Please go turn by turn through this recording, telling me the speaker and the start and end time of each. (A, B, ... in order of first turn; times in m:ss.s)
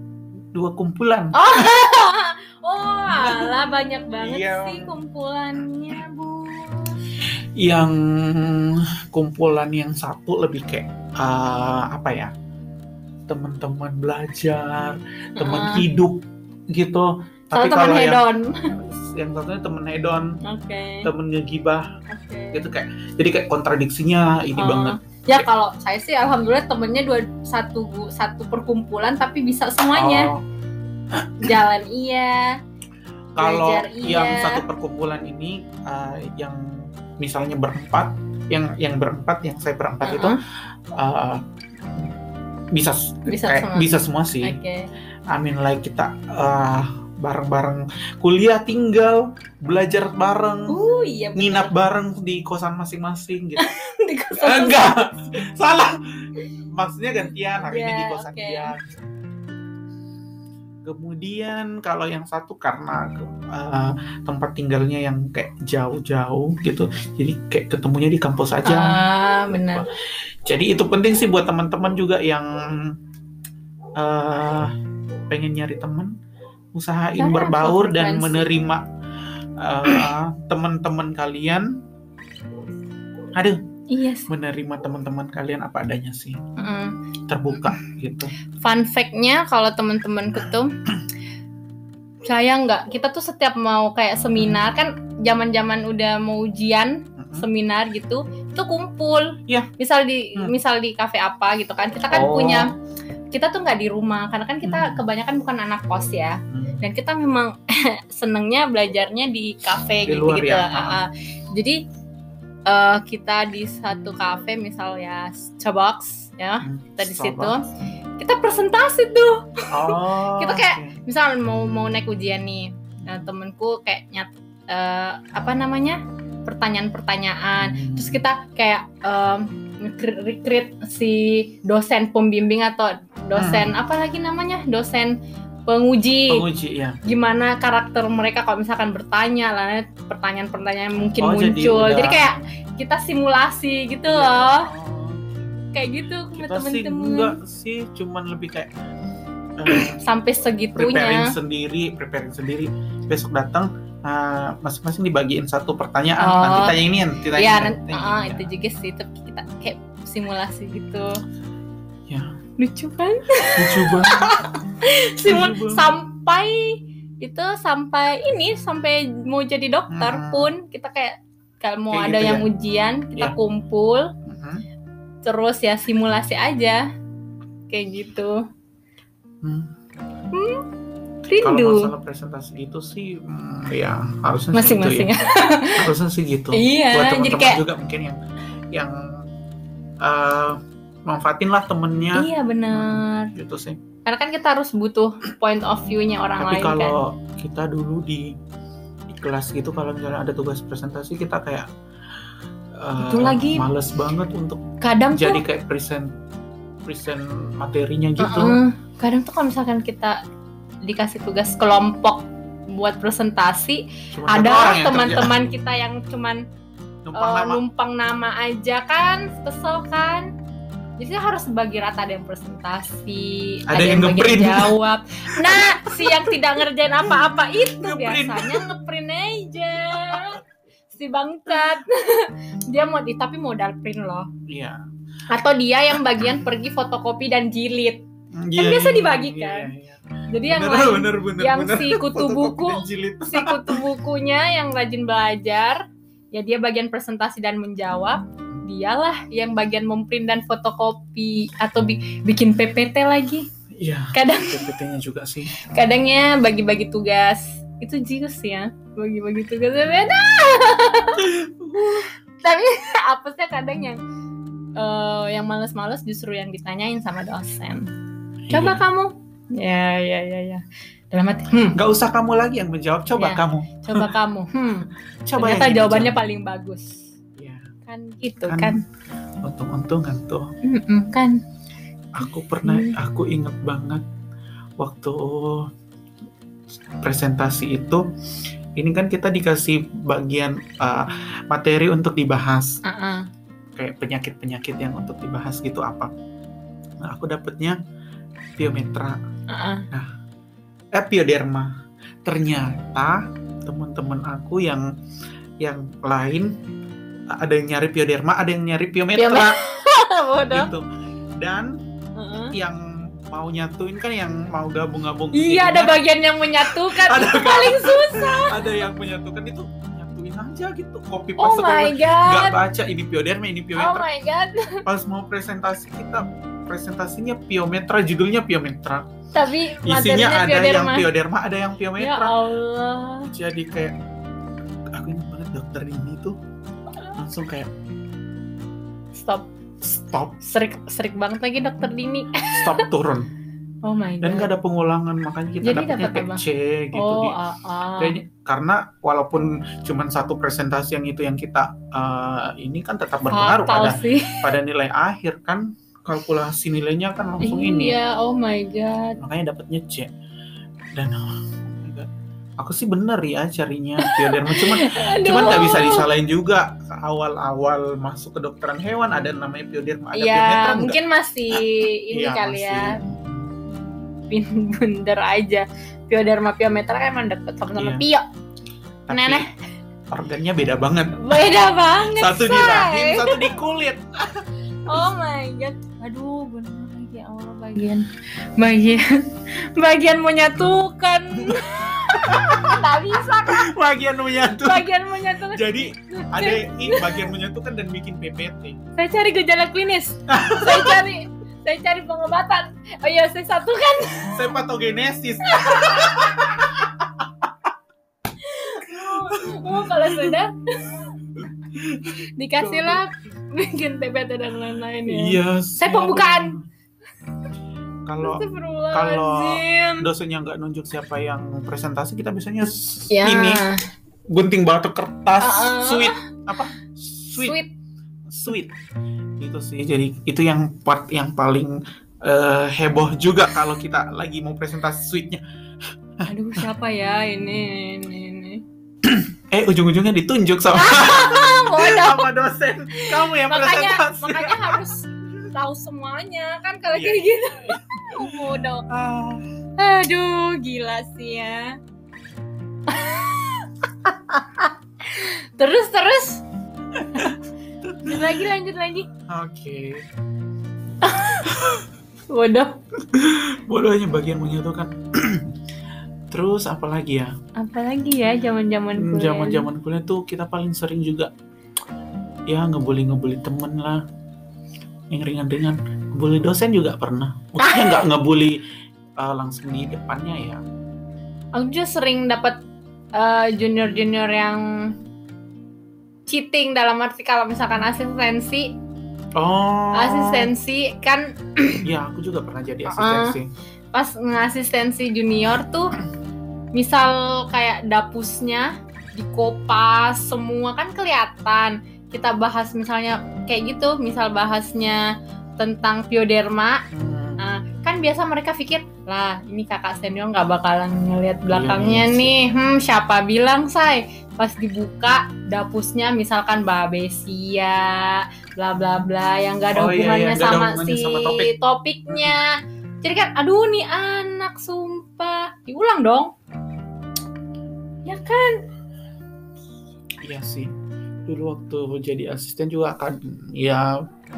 0:00.5-0:01.9 A
0:01.3-0:07.0 B
0:03.2-0:03.6 A
0:04.2-0:05.0 A
0:07.2-0:12.3 A
0:13.3-0:20.4 A
0:15.4-0:15.8 B
0:17.5-0:18.7 B
0:20.4-0:21.1 B
0:21.0-0:21.9 A
0:22.1-0:22.7 B
0:22.5-0:25.4 A
0:24.6-0:30.3 B
0:29.9-0:30.4 A
0:31.1-0:31.6 A
0:31.4-0:32.6 B
0:33.4-0:40.4 A
0:33.4-0:34.6 B
0:40.0-0:40.4 B
0:40.9-0:41.4 A
0:42.7-0:44.6 A
0:43.3-0:43.9 B
0:44.4-0:44.9 B
0:45.3-0:50.7 A
0:50.7-0:51.7 B
0:51.4-0:53.7 A
0:53.6-0:55.1 B
0:54.4-0:59.6 A
0:57.6-0:58.7 B
1:00.8-1:09.9 A
1:08.6-1:09.8 B
1:10.4-1:13.0 A
1:14.0-1:14.7 A
1:15.3-1:16.1 A
1:16.7-1:18.8 A
1:17.2-1:18.5 B
1:19.6-1:21.7 A
1:23.3-1:23.6 A
1:23.9-1:24.3 B
1:24.3-1:26.4 A
1:26.6-1:27.0 B
1:27.3-1:28.3 A
1:28.6-1:30.7 B
1:32.2-1:42.7 B
1:34.4-1:34.6 A
1:37.2-1:37.5 A
1:42.1-1:42.7 A
1:43.3-1:51.8 B
1:44.6-1:45.0 A
1:46.5-1:46.8 A
1:50.0-1:51.0 A
1:52.7-1:57.6 B
1:56.6-1:57.5 A
1:58.2-2:16.4 B
1:59.7-2:01.0 A
2:03.0-2:03.3 A
2:07.6-2:08.2 A
2:13.4-2:13.8 A
2:16.3-2:17.0 A
2:17.0-2:24.7 B
2:21.2-2:22.4 A
2:24.1-2:25.6 A
2:25.7-2:27.4 B
2:26.3-2:28.7 A
2:29.6-2:30.0 A
2:29.7-2:31.3 B
2:30.7-2:38.5 A
2:36.2-2:36.8 B
2:37.4-2:41.2 B
2:42.1-2:42.4 A
2:42.6-2:54.1 B
2:43.6-2:44.5 A
2:45.2-2:45.9 A
2:49.9-2:50.5 A
2:51.9-2:52.4 A
2:54.2-2:54.6 A
2:55.2-2:56.8 B
2:57.7-2:58.4 B
2:59.4-2:59.7 A
3:00.3-3:00.6 B
3:01.2-3:01.9 B
3:01.4-3:05.1 A
3:04.5-3:05.9 B
3:05.8-3:08.2 A
3:06.5-3:07.6 B
3:08.7-3:09.2 A
3:10.0-3:13.8 A
3:12.1-3:13.3 B
3:14.0-3:17.0 B
3:16.4-3:18.3 A
3:19.1-3:21.7 A
3:22.8-3:26.1 A
3:23.0-3:23.7 B
3:24.8-3:25.4 B
3:26.8-3:28.6 A
3:28.2-3:30.2 B
3:30.8-3:36.4 B
3:34.1-3:35.3 A
3:37.0-3:37.6 A
3:37.2-3:40.3 B
3:41.0-3:50.4 B
3:43.7-3:44.7 A
3:45.3-3:46.5 A
3:47.0-3:48.7 A
3:50.0-3:50.4 A
3:50.9-3:54.3 B
3:54.5-3:54.8 A
3:55.3-3:58.0 B
3:58.3-4:03.8 A
3:58.6-3:59.7 B
4:00.3-4:13.5 B
4:13.7-4:15.5 A
4:14.1-4:14.7 B
4:15.6-4:24.0 B
4:21.1-4:22.1 A
4:24.8-4:27.9 B
4:28.5-4:28.8 A
4:28.5-4:31.8 B
4:31.7-4:34.1 A
4:33.1-4:37.1 B
4:35.2-4:36.2 A
4:37.4-4:37.7 A
4:37.8-4:38.8 B
4:38.5-4:38.8 A
4:39.4-4:40.5 A
4:40.6-4:41.4 B
4:42.1-4:44.0 A
4:42.6-4:43.0 B
4:44.8-4:45.7 A
4:47.0-4:48.0 A
4:48.8-4:52.8 A
4:52.8-4:53.3 B
4:53.8-4:56.1 A
4:57.0-4:57.8 A
4:58.6-4:59.2 A
4:59.5-4:59.9 B
5:00.9-5:04.9 A
5:05.6-5:06.5 A
5:07.3-5:09.6 A
5:09.2-5:10.7 B
5:10.5-5:11.8 A
5:12.2-5:12.5 B
5:12.5-5:16.0 A
5:15.3-5:18.7 B
5:16.6-5:24.0 A
5:21.4-5:22.6 B
5:23.8-5:24.8 B
5:24.8-5:29.1 A
5:29.3-5:31.1 B
5:29.8-5:32.3 A
5:32.0-5:33.3 B
5:33.2-5:34.0 A
5:34.9-5:36.4 A
5:37.2-5:37.7 A
5:39.2-5:39.5 B
5:40.0-5:40.4 A
5:40.4-5:42.8 B
5:42.5-5:43.3 A
5:43.8-5:44.5 B
5:44.2-5:47.4 A
5:45.6-5:46.4 B
5:46.9-5:48.2 B
5:48.0-5:58.0 A
5:53.3-5:54.4 B
5:57.4-5:59.2 B
5:59.2-6:00.1 A
6:00.9-6:02.1 A
6:02.6-6:11.0 A
6:04.0-6:06.0 B
6:10.1-6:13.0 B
6:11.5-6:13.5 A
6:14.3-6:18.2 B
6:17.8-6:18.0 A
6:19.1-6:19.5 A
6:19.1-6:19.5 B
6:20.1-6:21.5 A
6:21.2-6:23.5 B
6:22.0-6:24.4 A
6:24.8-6:33.7 B
6:31.4-6:32.9 A
6:33.5-6:34.9 A
6:34.4-6:37.2 B
6:35.4-6:38.8 A
6:39.0-6:44.4 B
6:40.3-6:41.0 A
6:44.3-6:47.5 A
6:45.4-6:46.3 B
6:48.4-6:51.1 B
6:48.8-6:50.3 A
6:51.4-6:53.0 A
6:52.4-6:56.6 B
6:55.0-6:56.6 A
6:58.0-7:03.6 A
6:58.2-7:00.1 B
7:03.1-7:03.8 B
7:04.3-7:07.6 A
7:05.4-7:06.2 B
7:07.4-7:07.7 B
7:08.3-7:08.7 A
7:09.4-7:15.4 A
7:16.2-7:16.6 A
7:16.2-7:18.6 B
7:19.0-7:24.9 A
7:20.7-7:22.3 B
7:22.9-7:28.8 B
7:26.9-7:29.4 A
7:29.8-7:31.8 B
7:32.9-7:36.4 B
7:37.0-7:38.4 A
7:38.0-7:39.1 B
7:39.2-7:40.0 A
7:41.0-7:41.5 B
7:41.4-7:41.8 A
7:42.3-7:42.8 B
7:43.1-7:45.5 A
7:46.3-7:47.3 A
7:47.6-7:49.7 B
7:49.0-7:51.3 A
7:52.5-7:54.0 A
7:55.1-7:58.6 A
7:57.6-7:58.0 B
7:59.2-8:00.6 A
8:01.5-8:02.6 B
8:03.1-8:05.0 B
8:06.3-8:08.8 B
8:09.3-8:10.5 A
8:09.9-8:11.8 B
8:11.8-8:13.5 A
8:12.9-8:13.4 B
8:13.9-8:15.9 B
8:16.7-8:26.8 B
8:26.9-8:27.4 A
8:27.4-8:46.3 B
8:31.5-8:32.3 A
8:39.7-8:41.5 A
8:42.1-8:42.4 A
8:48.0-8:48.6 B
8:50.2-8:50.7 A
8:51.2-8:54.0 A